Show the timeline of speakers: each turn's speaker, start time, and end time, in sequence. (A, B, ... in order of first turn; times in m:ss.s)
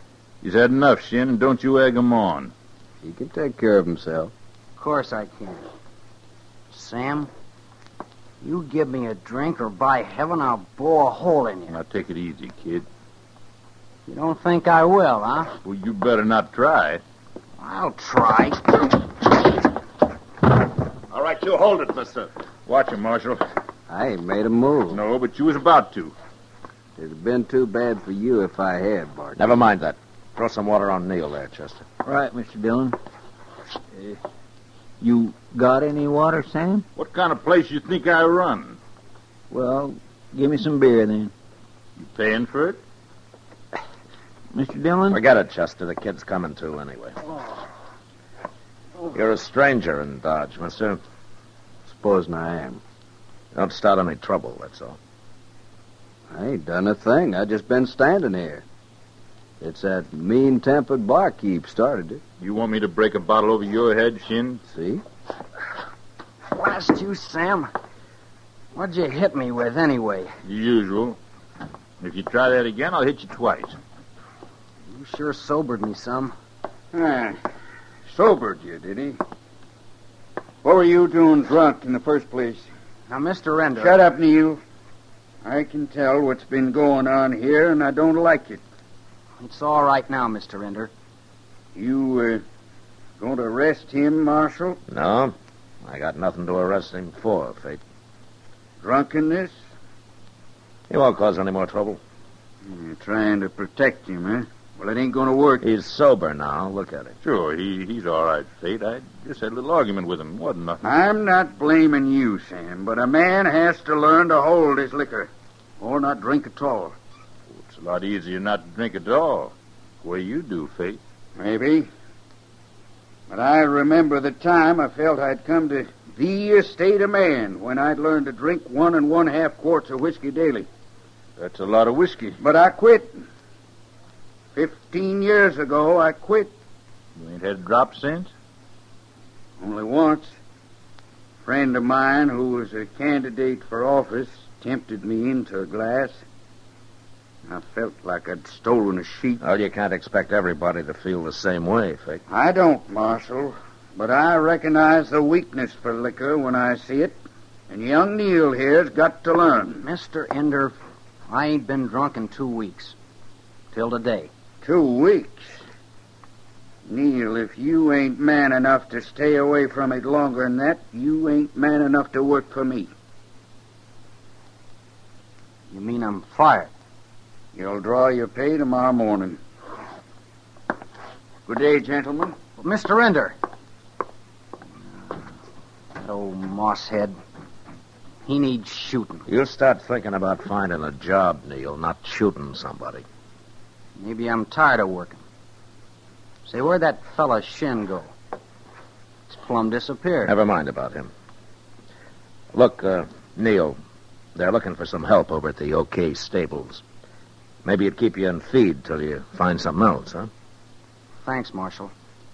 0:00.4-0:02.5 A
0:03.0-0:04.3 B
0:04.8-0:05.6 C
0:06.7-0:07.3 C
0:08.4-0:11.8 C
0:11.7-0:12.8 A
0:14.1-0:15.5 C
0:15.6-0:17.0 A
0:17.6-0:18.9 C
0:21.1-0:23.4 A
0:23.9-0:25.0 B
0:24.9-0:26.1 A
0:27.0-0:29.5 B
0:29.4-0:31.8 D
0:32.0-0:33.0 E
0:35.0-0:36.8 E
0:36.9-0:38.8 A
0:39.5-0:41.3 E
0:42.0-0:42.8 A
0:44.5-0:45.2 E
0:45.1-0:47.2 D
0:49.1-0:51.0 D
0:51.9-0:52.8 B
0:53.5-0:55.0 D
0:56.3-0:58.6 B
0:59.6-1:02.2 B
1:02.4-1:04.6 A
1:04.7-1:05.0 B
1:06.5-1:07.7 C
1:08.7-1:10.3 C
1:10.4-1:11.2 A
1:12.0-1:13.8 A
1:14.9-1:16.3 C
1:16.9-1:17.4 F
1:18.0-1:19.2 F
1:20.6-1:22.7 F
1:23.1-1:24.0 C
1:23.8-1:24.6 F
1:25.4-1:28.6 F
1:29.4-1:30.9 C
1:31.7-1:32.4 F
1:33.2-1:34.8 F
1:34.9-1:37.8 D
1:38.8-1:39.6 F
1:40.9-1:42.0 D
1:42.6-1:45.6 F
1:45.6-1:47.2 D
1:47.2-1:50.8 A
1:50.8-1:57.0 F
1:57.6-2:01.0 A
2:01.4-2:01.9 F
2:03.3-2:10.7 F
2:11.4-2:12.4 A
2:12.4-2:13.2 F
2:14.5-2:16.5 F
2:17.2-2:18.3 A
2:19.6-2:20.3 F
2:21.4-2:26.2 F
2:27.5-2:29.4 F
2:29.4-2:32.2 D
2:32.3-2:37.2 F
2:37.7-2:39.8 F
2:39.8-2:40.8 C
2:41.3-2:42.9 C
2:43.7-2:44.3 C
2:44.6-2:45.6 F
2:46.8-2:52.9 F
2:55.7-2:56.7 C
2:57.5-2:59.4 F
3:01.5-3:02.4 F
3:02.6-3:03.4 C
3:06.0-3:07.2 C
3:08.2-3:09.2 C
3:09.3-3:13.0 D
3:14.0-3:15.2 C
3:16.4-3:18.1 C
3:19.3-3:20.3 C
3:20.2-3:21.1 D
3:22.5-3:23.8 D
3:24.3-3:26.8 D
3:27.6-3:30.3 D
3:31.2-3:31.9 C